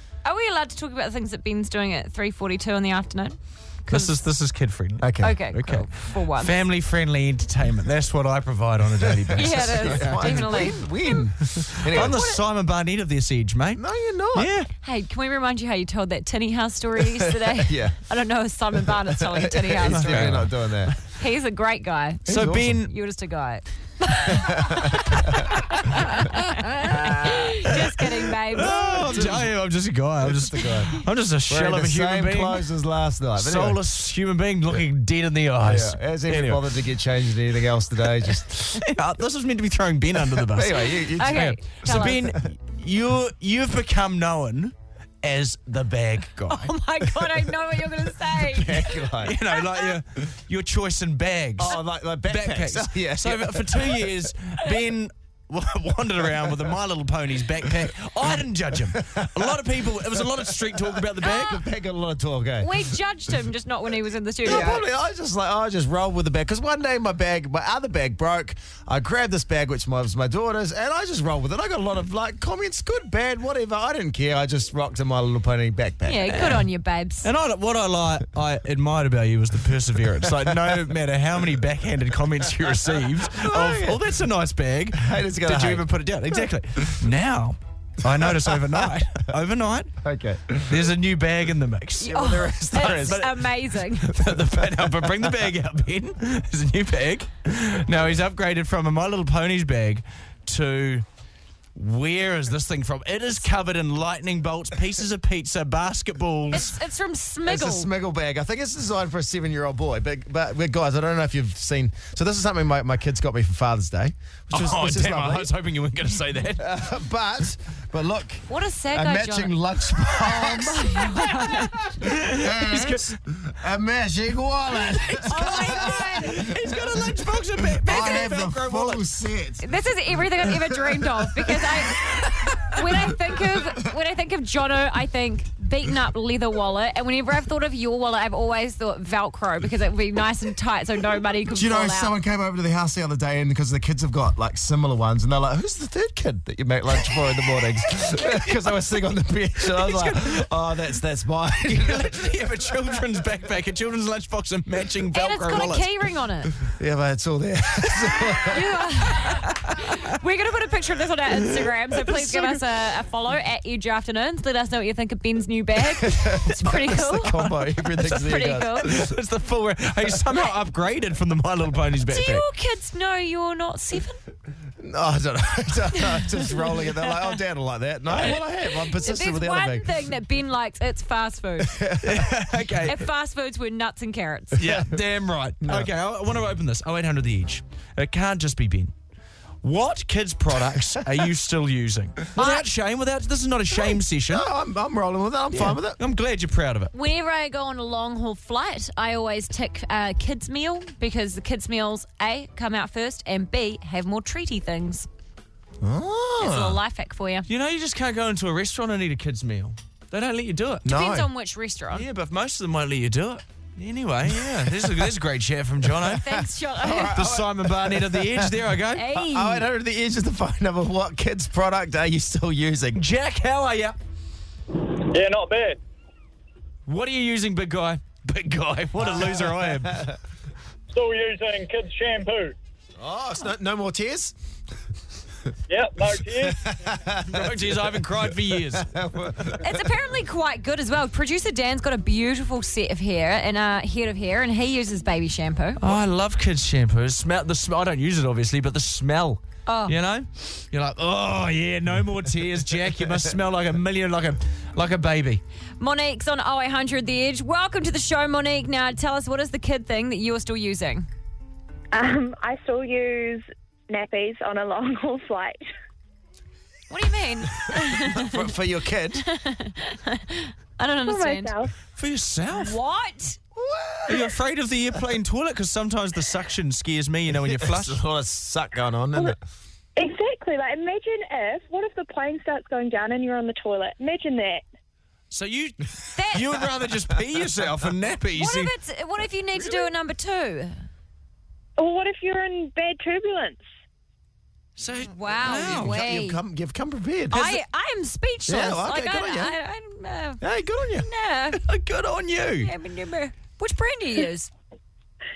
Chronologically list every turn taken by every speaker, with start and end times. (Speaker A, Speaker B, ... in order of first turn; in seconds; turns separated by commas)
Speaker A: 0.2-3.4, Speaker B: 3.9-10.7, Speaker A: 3.9-4.2, Speaker C: 5.0-5.4, Speaker A: 5.2-6.5, Speaker C: 9.1-12.3, Speaker A: 9.3-10.9, Speaker B: 11.5-13.8, Speaker C: 13.8-14.5, Speaker B: 14.3-14.7, Speaker A: 14.8-20.3, Speaker C: 17.2-18.0, Speaker C: 18.8-20.9, Speaker B: 19.8-21.0, Speaker A: 21.1-29.3, Speaker C: 22.3-22.8, Speaker B: 22.3-22.9, Speaker C: 24.3-25.4, Speaker B: 25.9-32.7, Speaker C: 28.9-29.5, Speaker C: 30.2-33.8, Speaker B: 33.4-36.6, Speaker C: 35.6-38.8, Speaker B: 38.5-47.5, Speaker C: 40.3-41.9, Speaker A: 41.1-42.2, Speaker A: 46.5-49.9, Speaker C: 48.5-49.4, Speaker B: 49.2-61.6, Speaker C: 51.6-54.0, Speaker C: 58.9-59.6, Speaker C: 60.2-62.9, Speaker A: 62.6-64.8, Speaker C: 64.4-76.5, Speaker A: 76.0-77.3, Speaker B: 77.2-89.9, Speaker C: 80.3-80.8, Speaker C: 83.3-84.0, Speaker C: 85.0-85.9, Speaker C: 88.1-88.9, Speaker C: 90.0-90.9, Speaker B: 90.7-93.4, Speaker A: 92.0-94.2, Speaker C: 92.0-93.3, Speaker B: 94.0-101.0, Speaker C: 94.3-95.2, Speaker B: 101.8-106.8, Speaker A: 106.5-107.9, Speaker C: 107.5-115.5, Speaker B: 114.5-116.7, Speaker C: 116.6-129.7, Speaker A: 118.5-121.8, Speaker B: 122.0-123.2, Speaker B: 124.9-129.1, Speaker A: 125.3-126.4, Speaker A: 129.6-142.1, Speaker C: 130.4-131.7, Speaker C: 141.5-153.0, Speaker B: 149.7-150.4, Speaker B: 151.7-155.9, Speaker A: 155.1-156.5, Speaker C: 156.7-158.6, Speaker A: 158.5-167.4, Speaker B: 159.2-159.9, Speaker B: 161.5-162.7, Speaker C: 166.0-169.2, Speaker B: 166.6-168.2, Speaker A: 168.0-169.0, Speaker B: 168.8-172.4, Speaker A: 172.1-174.2, Speaker C: 174.8-180.1, Speaker A: 175.9-177.3, Speaker A: 178.2-181.8, Speaker C: 181.6-182.4, Speaker B: 182.0-183.0, Speaker A: 182.9-184.6, Speaker B: 184.6-188.9, Speaker C: 184.6-185.0, Speaker C: 185.6-185.9, Speaker B: 189.6-194.5, Speaker A: 192.3-192.7, Speaker C: 193.9-196.0, Speaker B: 195.5-196.9, Speaker A: 196.9-205.1, Speaker C: 205.8-206.8, Speaker A: 206.4-207.5, Speaker B: 207.5-210.9, Speaker C: 210.8-211.3, Speaker A: 210.9-212.1, Speaker B: 211.9-216.4, Speaker A: 216.1-217.2, Speaker C: 216.8-218.6, Speaker B: 217.1-219.1, Speaker A: 218.9-219.7, Speaker C: 219.1-223.0, Speaker B: 223.0-224.0, Speaker D: 225.1-225.8, Speaker B: 226.9-230.1, Speaker C: 229.0-230.1, Speaker D: 230.9-232.5, Speaker C: 233.0-234.4, Speaker D: 235.7-236.7, Speaker C: 236.5-239.9, Speaker B: 237.3-238.9, Speaker A: 239.6-245.8, Speaker B: 245.8-255.4, Speaker A: 249.7-249.9, Speaker A: 255.8-261.1, Speaker E: 261.9-265.6, Speaker A: 266.9-268.5, Speaker C: 267.8-269.3, Speaker A: 269.2-271.6, Speaker E: 271.1-271.7, Speaker B: 272.0-272.8, Speaker A: 272.6-273.4, Speaker C: 273.6-274.3, Speaker B: 274.1-278.0, Speaker C: 277.4-279.4, Speaker E: 280.0-284.6, Speaker B: 285.3-285.8, Speaker A: 286.1-286.5, Speaker B: 286.3-288.7, Speaker A: 288.4-290.8, Speaker E: 291.8-293.6, Speaker B: 294.8-296.0, Speaker A: 295.1-296.4, Speaker C: 295.4-297.6, Speaker A: 297.3-300.4, Speaker C: 298.5-299.6, Speaker C: 300.4-301.1, Speaker A: 301.0-301.6, Speaker B: 301.6-302.7, Speaker A: 302.6-304.5